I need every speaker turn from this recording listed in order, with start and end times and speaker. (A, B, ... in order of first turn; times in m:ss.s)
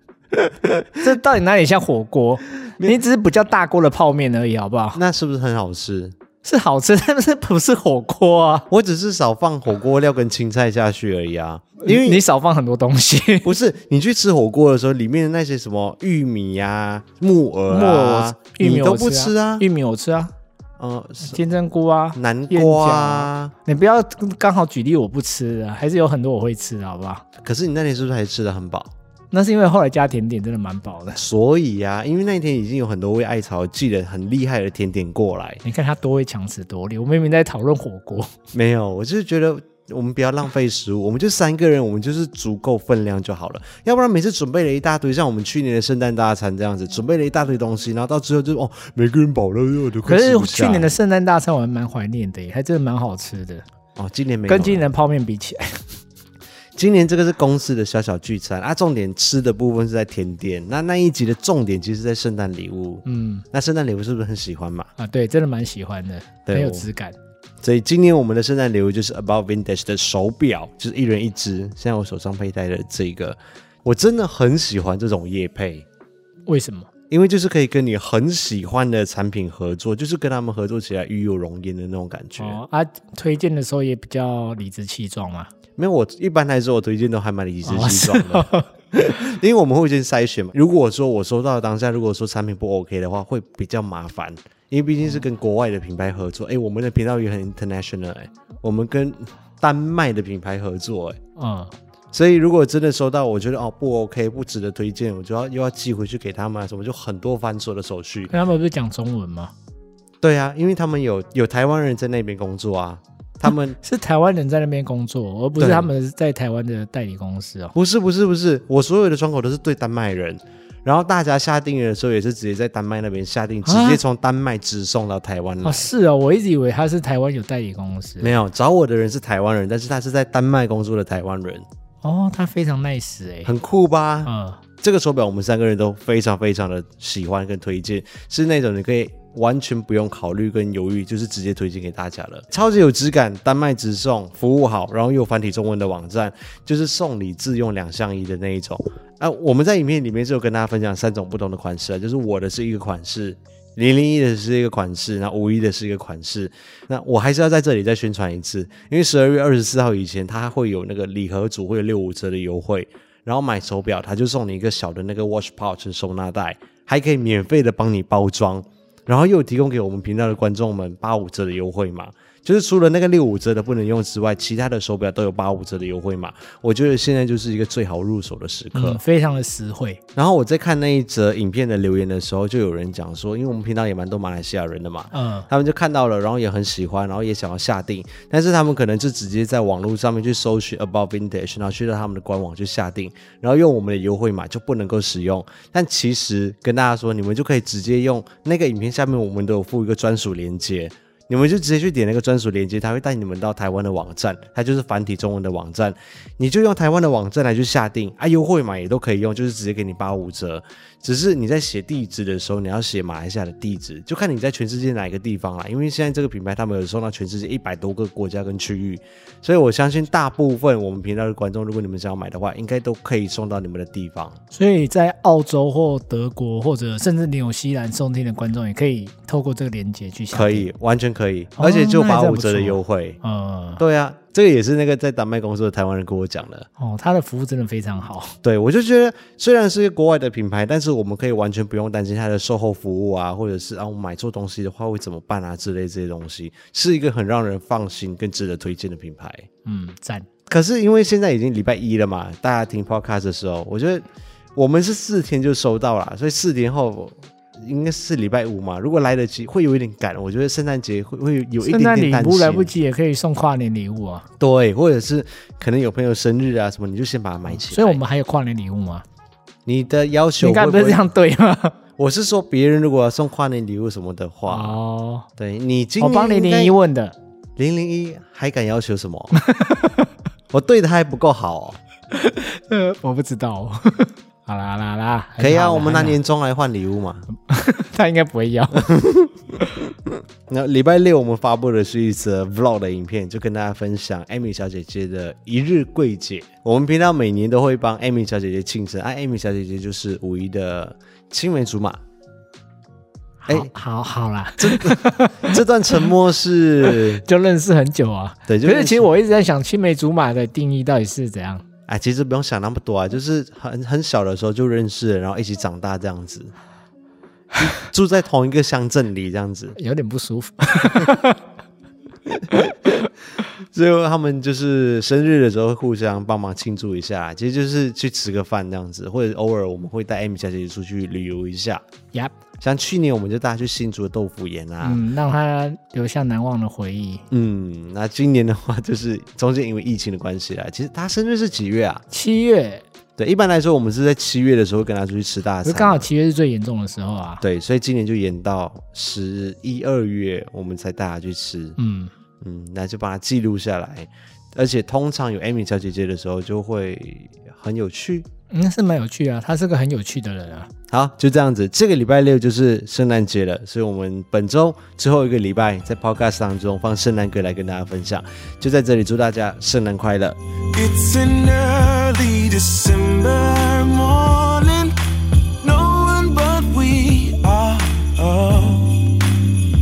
0:00.5-0:01.0 A
0:01.0-0:05.0 B
0:02.7-0:03.0 A
0:04.9-0:06.1 A
0:06.4-0:08.7 B
0:08.7-0:12.2 A
0:11.8-0:13.5 B
0:13.4-0:19.7 A
0:17.7-0:20.3 B
0:20.8-0:21.4 A
0:21.2-0:27.2 B
0:22.2-0:23.5 A
0:27.4-0:28.9 A
0:29.3-0:31.2 B
0:31.2-0:35.6 A
0:35.6-0:38.3 B
0:38.5-0:50.9 A
0:50.1-0:53.6 B
0:54.0-0:54.9 A
0:54.5-0:55.9 B
0:56.8-1:04.9 A
1:03.0-1:03.5 B
1:05.0-1:07.2 B
1:06.5-1:06.9 A
1:07.6-1:15.9 A
1:16.5-1:16.9 B
1:17.1-1:22.6 A
1:22.4-1:25.5 B
1:25.8-1:41.2 A
1:27.6-1:28.7 B
1:41.4-1:41.7 B
1:42.1-1:48.3 A
1:48.3-1:49.5 B
1:50.2-1:53.8 A
1:53.8-1:57.7 B
1:55.6-1:55.9 A
1:57.7-2:05.9 A
2:03.6-2:04.0 B
2:05.6-2:08.4 B
2:08.2-2:11.7 A
2:12.0-2:13.5 B
2:13.4-2:14.3 A
2:14.2-2:14.6 B
2:14.8-2:59.0 A
2:58.7-3:00.0 B
3:00.2-3:44.4 A
3:05.1-3:05.5 B
3:44.5-3:50.7 B
3:50.3-3:53.2 A
3:51.6-3:53.8 B
3:53.8-3:56.7 A
3:56.8-3:58.4 B
3:58.4-4:09.5 A
4:09.6-4:10.3 B
4:10.5-4:14.0 A
4:14.6-4:22.7 A
4:21.6-4:24.3 B
4:24.4-4:28.0 A
4:27.5-4:29.0 B
4:29.7-4:31.1 A
4:30.4-4:31.8 B
4:32.0-4:34.8 A
4:34.5-4:35.3 B
4:35.4-4:36.8 A
4:36.0-4:37.2 B
4:37.6-4:39.4 A
4:39.4-4:40.1 B
4:40.5-4:41.8 A
4:42.1-4:46.2 B
4:45.4-4:47.3 A
4:47.4-4:48.9 B
4:48.7-5:02.0 A
5:03.4-5:06.0 B
5:04.6-5:07.2 A
5:06.8-5:11.6 B
5:08.5-5:09.1 A
5:11.9-5:16.5 A
5:17.6-5:19.8 A
5:19.8-5:21.4 B
5:22.3-5:31.8 A
5:32.6-5:35.0 A
5:34.8-5:37.2 B
5:37.3-5:42.0 A
5:42.1-5:42.8 B
5:43.2-5:46.1 A
5:45.6-5:47.4 B
5:47.4-5:51.8 A
5:51.8-5:52.1 B
5:52.4-5:58.3 A
5:58.5-6:00.7 B
6:00.9-6:10.4 A
6:10.7-6:15.0 C
6:15.6-6:19.2 C